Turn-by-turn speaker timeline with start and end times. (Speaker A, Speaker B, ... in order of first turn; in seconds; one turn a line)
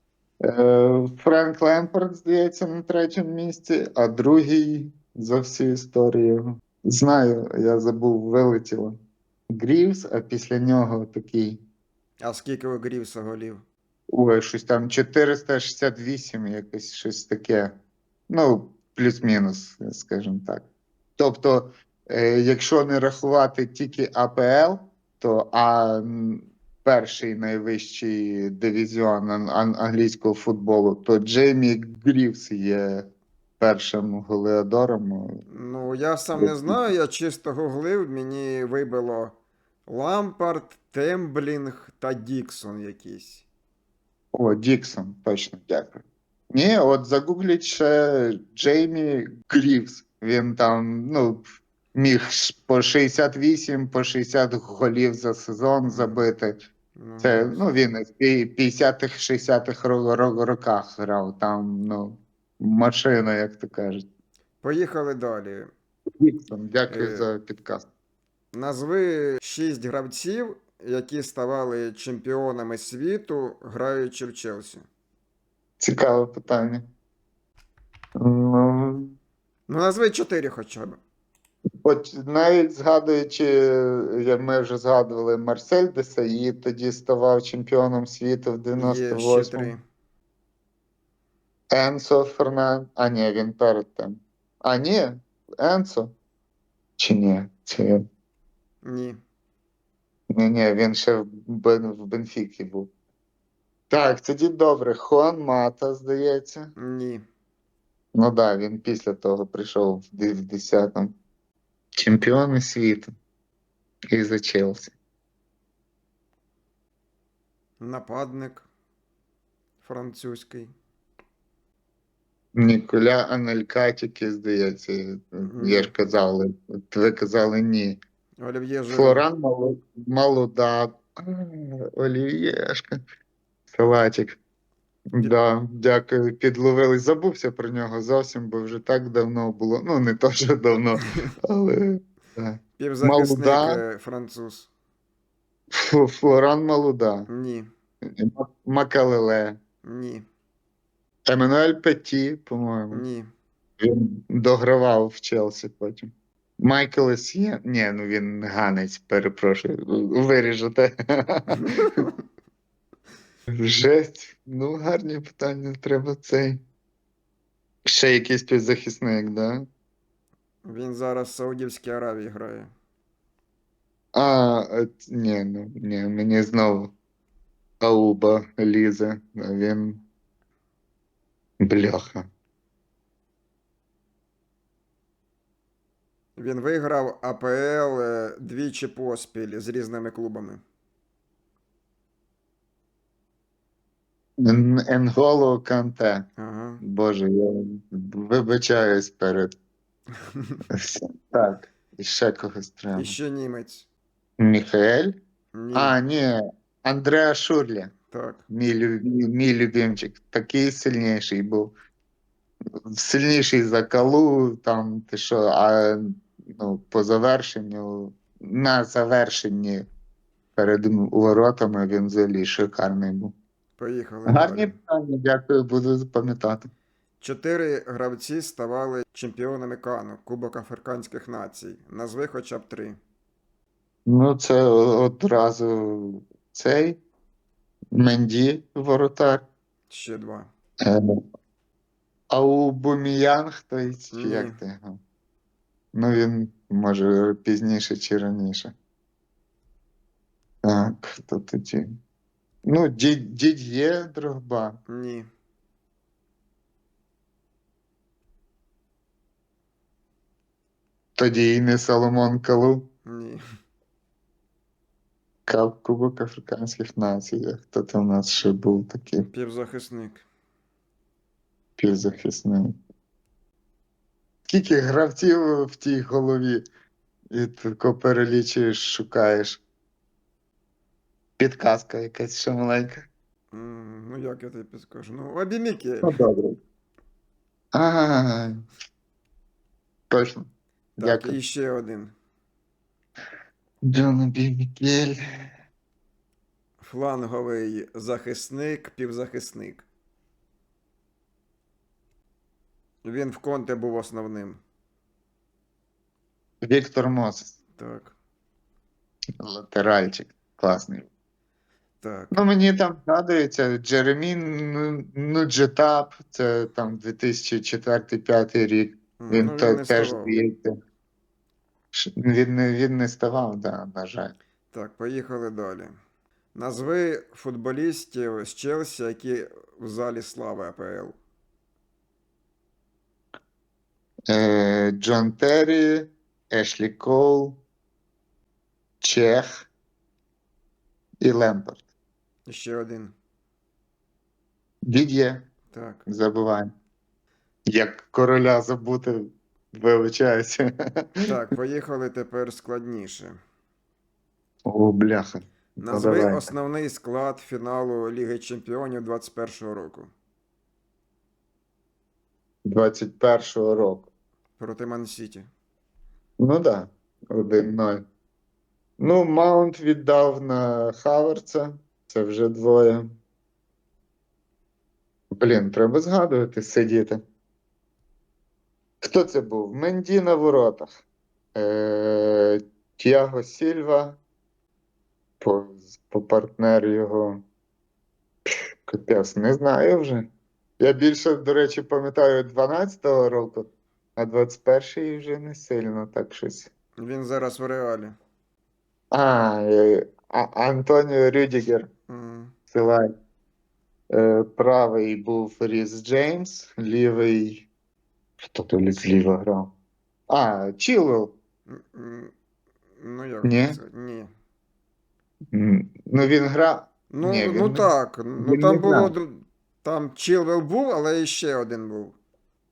Speaker A: 0.4-11.6
Speaker B: 12.2-13.6
Speaker A: 14.1-17.8
Speaker A: 18.3-20.6
Speaker A: 21.2-33.1
Speaker A: 33.6-35.4
Speaker B: 35.5-39.4
Speaker A: 36.4-36.9
Speaker B: 39.9-43.5
Speaker A: 44.3-56.5
Speaker B: 55.9-56.3
Speaker B: 57.0-57.7
Speaker A: 57.2-64.1
Speaker B: 64.6-65.7
Speaker A: 66.2-67.9
Speaker B: 66.9-67.3
Speaker B: 68.5-74.9
Speaker A: 75.8-76.9
Speaker A: 78.2-79.2
Speaker B: 79.7-81.0
Speaker A: 81.8-89.8
Speaker B: 88.8-89.8
Speaker A: 91.7-96.1
Speaker A: 97.0-98.1
Speaker B: 98.8-99.2
Speaker A: 100.3-102.9
Speaker A: 103.9-106.7
Speaker B: 106.8-107.2
Speaker A: 108.1-111.1
Speaker A: 112.0-113.1
Speaker A: 114.1-114.9
Speaker B: 117.8-118.7
Speaker B: 119.8-120.7
Speaker A: 122.5-128.0
Speaker B: 125.4-125.9
Speaker B: 128.4-129.2
Speaker A: 128.9-133.0
Speaker A: 133.7-134.4
Speaker A: 135.1-143.8
Speaker B: 142.8-144.7
Speaker A: 145.7-147.3
Speaker B: 147.3-147.7
Speaker A: 148.0-149.6
Speaker B: 149.8-150.2
Speaker A: 151.3-153.1
Speaker B: 152.9-153.3
Speaker A: 153.8-162.1
Speaker B: 161.7-162.1
Speaker A: 163.5-166.6
Speaker A: 167.9-169.7
Speaker B: 170.6-172.7
Speaker A: 174.1-176.9
Speaker A: 177.8-180.0
Speaker A: 181.6-182.3
Speaker B: 186.4-190.6
Speaker A: 194.4-196.3
Speaker B: 196.4-196.8
Speaker A: 196.8-199.5
Speaker B: 200.2-200.6
Speaker A: 200.7-203.2
Speaker B: 202.9-203.9
Speaker A: 204.4-205.2
Speaker B: 205.5-206.0
Speaker A: 205.7-207.9
Speaker B: 208.1-208.4
Speaker A: 208.5-211.7
Speaker A: 212.9-219.9
Speaker A: 220.6-223.3
Speaker B: 223.8-224.7
Speaker A: 224.3-226.7
Speaker B: 227.2-233.0
Speaker A: 234.1-237.0
Speaker A: 237.9-239.5
Speaker B: 239.9-240.5
Speaker A: 240.8-241.2
Speaker A: 242.3-245.0
Speaker B: 244.1-244.6
Speaker A: 245.9-248.7
Speaker A: 250.6-252.0
Speaker A: 252.7-254.8
Speaker B: 254.9-255.3
Speaker A: 261.2-262.9
Speaker B: 263.1-263.4
Speaker A: 265.5-269.3
Speaker B: 269.2-270.2
Speaker A: 271.8-272.8
Speaker A: 274.5-276.6
Speaker A: 277.3-279.6
Speaker A: 281.4-283.1
Speaker B: 283.5-286.1
Speaker A: 286.0-286.6
Speaker A: 287.7-288.6
Speaker A: 290.1-291.4
Speaker B: 291.0-292.1
Speaker A: 293.8-295.2
Speaker B: 296.8-299.9
Speaker B: 303.0-304.6
Speaker A: 306.6-307.6
Speaker B: 307.8-308.1
Speaker A: 309.4-311.1
Speaker B: 312.0-312.4
Speaker A: 312.3-320.7
Speaker B: 319.2-320.4
Speaker A: 321.9-324.4
Speaker B: 324.7-325.9
Speaker B: 326.6-331.2
Speaker A: 334.3-337.6
Speaker A: 339.0-339.7
Speaker A: 341.2-341.9
Speaker B: 342.5-343.1
Speaker A: 344.9-345.5
Speaker B: 345.7-346.0
Speaker A: 346.1-346.7
Speaker A: 347.7-351.1
Speaker B: 351.3-353.4
Speaker A: 354.7-356.5
Speaker B: 355.8-360.1
Speaker A: 362.6-364.1
Speaker B: 364.6-365.5
Speaker A: 366.4-368.0
Speaker A: 369.0-373.1
Speaker A: 375.4-377.2
Speaker A: 379.0-380.9
Speaker A: 381.6-384.2
Speaker A: 385.4-387.4
Speaker A: 388.5-390.3
Speaker A: 390.8-396.7
Speaker B: 397.0-398.2
Speaker A: 399.1-401.9
Speaker B: 402.1-402.5
Speaker A: 402.7-403.1
Speaker A: 404.1-407.7
Speaker A: 408.4-409.7
Speaker A: 410.3-411.3
Speaker B: 411.7-412.3
Speaker B: 413.0-414.3
Speaker A: 413.4-413.8
Speaker A: 415.5-419.1
Speaker B: 417.1-422.2